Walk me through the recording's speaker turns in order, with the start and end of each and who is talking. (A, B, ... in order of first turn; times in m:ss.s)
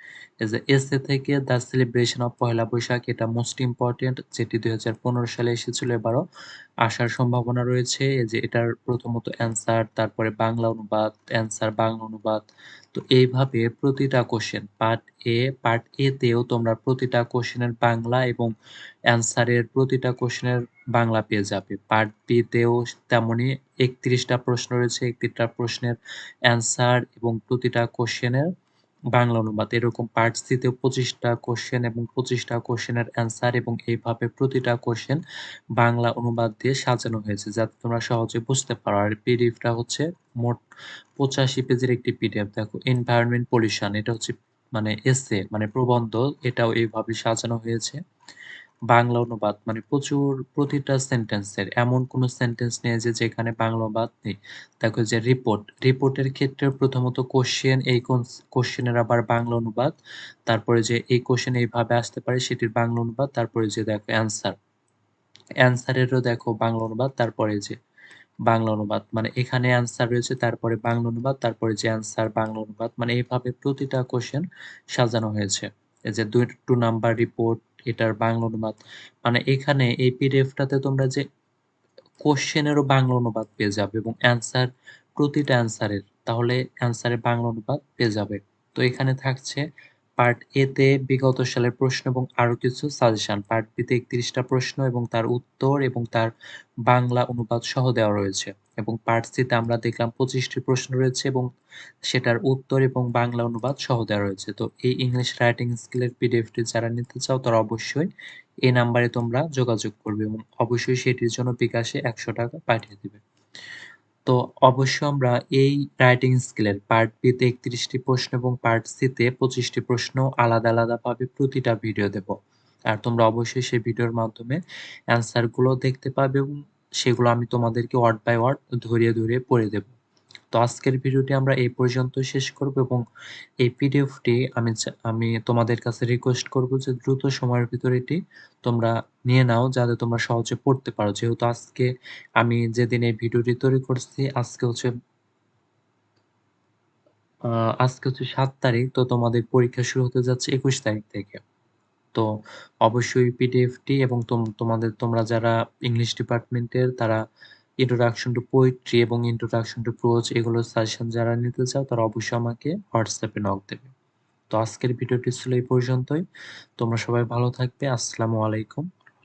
0:00.4-0:06.2 A
0:06.8-0:12.4 A
0:12.9-0:18.5 A
0:19.1-0:26.0 A
0:26.5-0:28.5 A
0:29.1-0:35.2 A
0:35.8-0:40.6 A
0:41.2-0:48.0 A
0:48.9-0:59.9 A
1:00.5-1:04.5 A
1:05.6-1:07.8 A
1:08.5-1:21.2 A
1:22.2-1:29.6 A
1:30.2-1:36.3 A
1:36.9-1:41.5 A
1:42.1-1:48.1 A
1:48.6-1:53.2 A
1:54.3-2:02.3 A
2:02.9-2:04.6 A
2:05.1-2:09.9 A
2:10.5-2:13.0 A
2:13.6-2:21.9 A
2:22.4-2:24.9 A
2:27.5-2:31.4 A
2:32.9-2:37.2 A
2:37.8-2:43.9 A
2:44.5-2:46.2 A
2:46.8-2:48.9 A